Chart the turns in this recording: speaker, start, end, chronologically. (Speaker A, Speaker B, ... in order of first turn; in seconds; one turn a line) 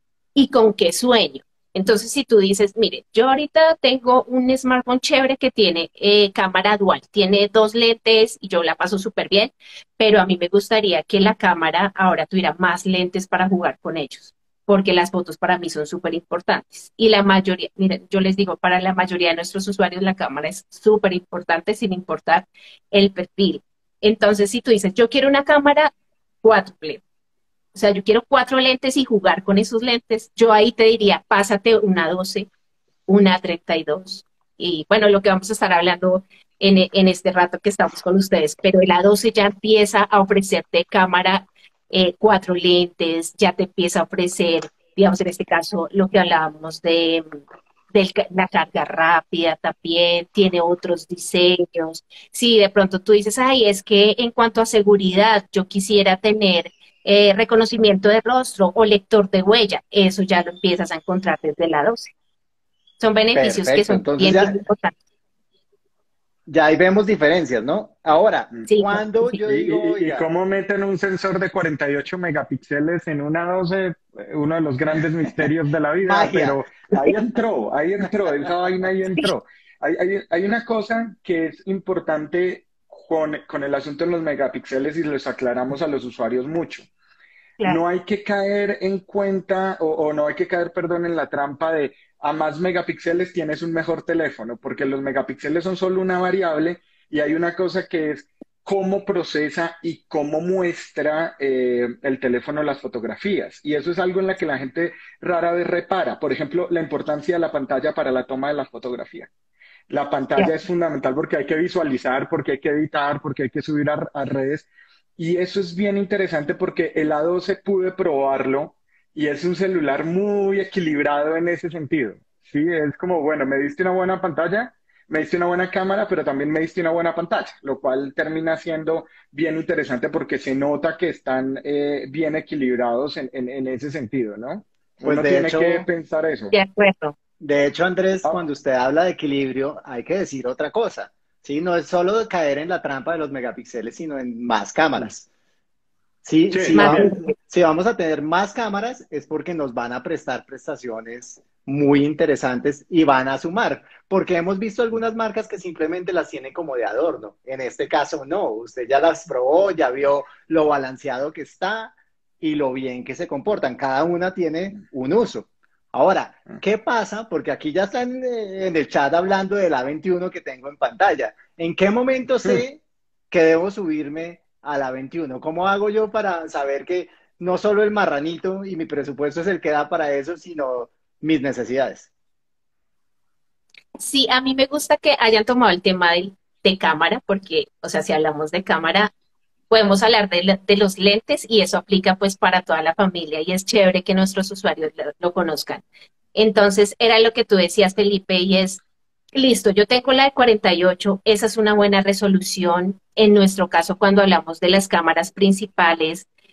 Speaker A: 0.3-25.9
Speaker A: 26.4-27.0
Speaker A: 27.7-32.5
Speaker A: 33.1-47.2
Speaker A: 47.9-62.1
Speaker A: 63.0-65.0
Speaker B: 63.3-64.6
Speaker B: 66.5-70.2
Speaker A: 68.7-69.4
Speaker C: 69.4-86.9
Speaker B: 76.0-76.9
Speaker C: 87.7-109.3
Speaker C: 109.9-114.7
Speaker C: 115.2-136.5
Speaker B: 135.0-135.9
Speaker A: 136.5-137.2
Speaker B: 137.4-145.3
Speaker B: 146.2-182.1
Speaker C: 146.5-147.2
Speaker A: 146.7-147.3
Speaker A: 184.0-189.1
Speaker A: 189.7-195.8
Speaker A: 196.3-198.8
Speaker A: 199.3-206.3